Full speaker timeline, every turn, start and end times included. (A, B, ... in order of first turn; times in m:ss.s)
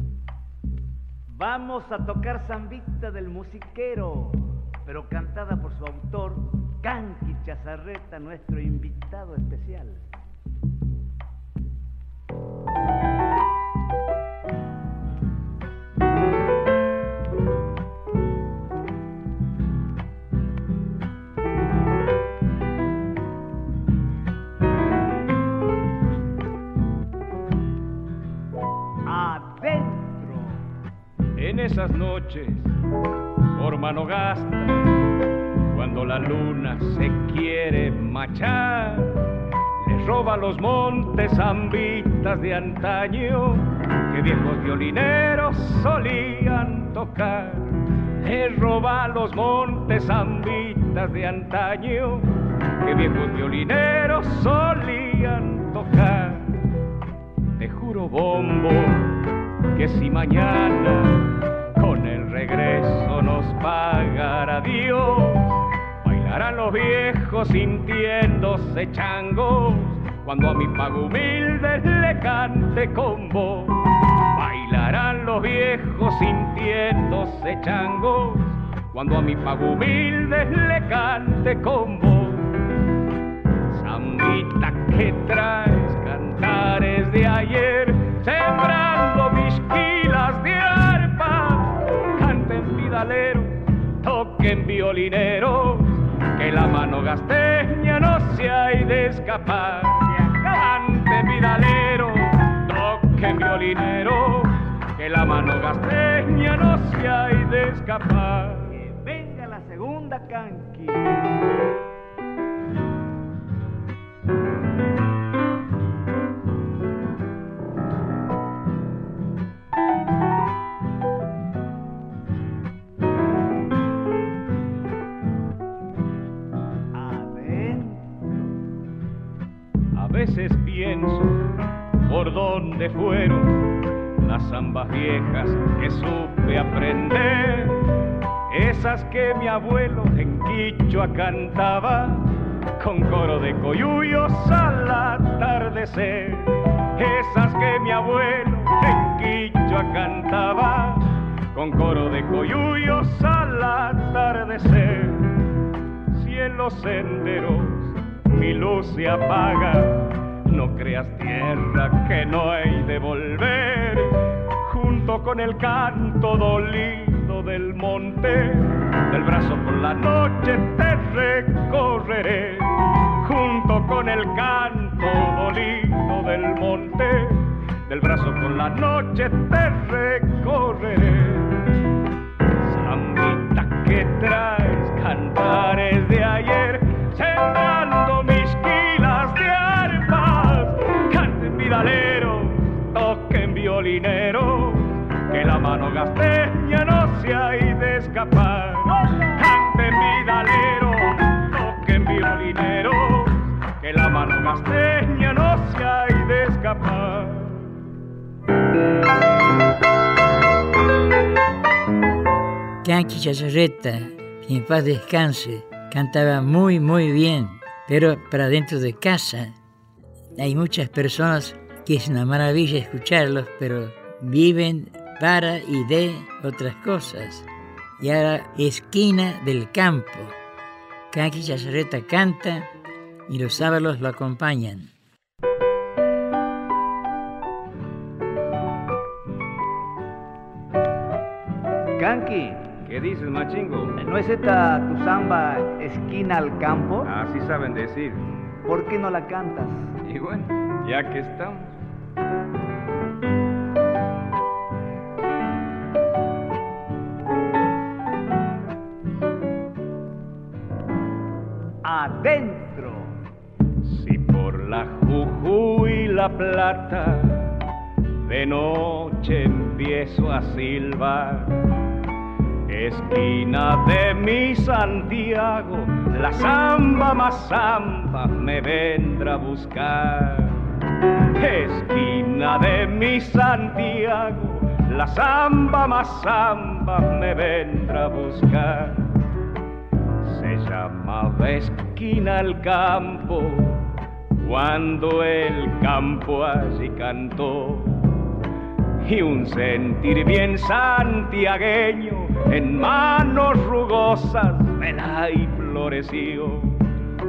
0:01.3-0:10.0 A
0:29.1-0:30.6 A
0:31.4-0:32.7 B
0:33.5-0:34.9 B
0:35.7-0:56.6 B
0:57.6-1:22.6 B
1:23.7-1:48.8 B
1:48.8-1:51.2 A
2:06.9-2:08.3 A
2:10.0-2:11.5 B
2:12.1-2:35.4 B
2:36.1-3:01.7 B
3:02.6-3:27.8 B
3:32.8-3:39.5 C
3:40.4-3:47.5 C
3:48.0-3:50.4 C
3:51.1-3:52.7 C
3:53.3-3:54.9 C
4:02.0-4:02.7 A
4:02.8-4:04.0 B
4:04.0-4:07.1 A
4:07.0-4:08.3 B
4:08.7-4:09.9 A
4:10.0-4:11.7 B
4:21.8-4:23.1 A
4:23.8-4:27.6 B
4:28.2-4:31.7 B
4:32.7-4:40.7 B
4:41.4-4:49.1 B
4:50.2-4:58.2 B
4:59.0-5:06.9 B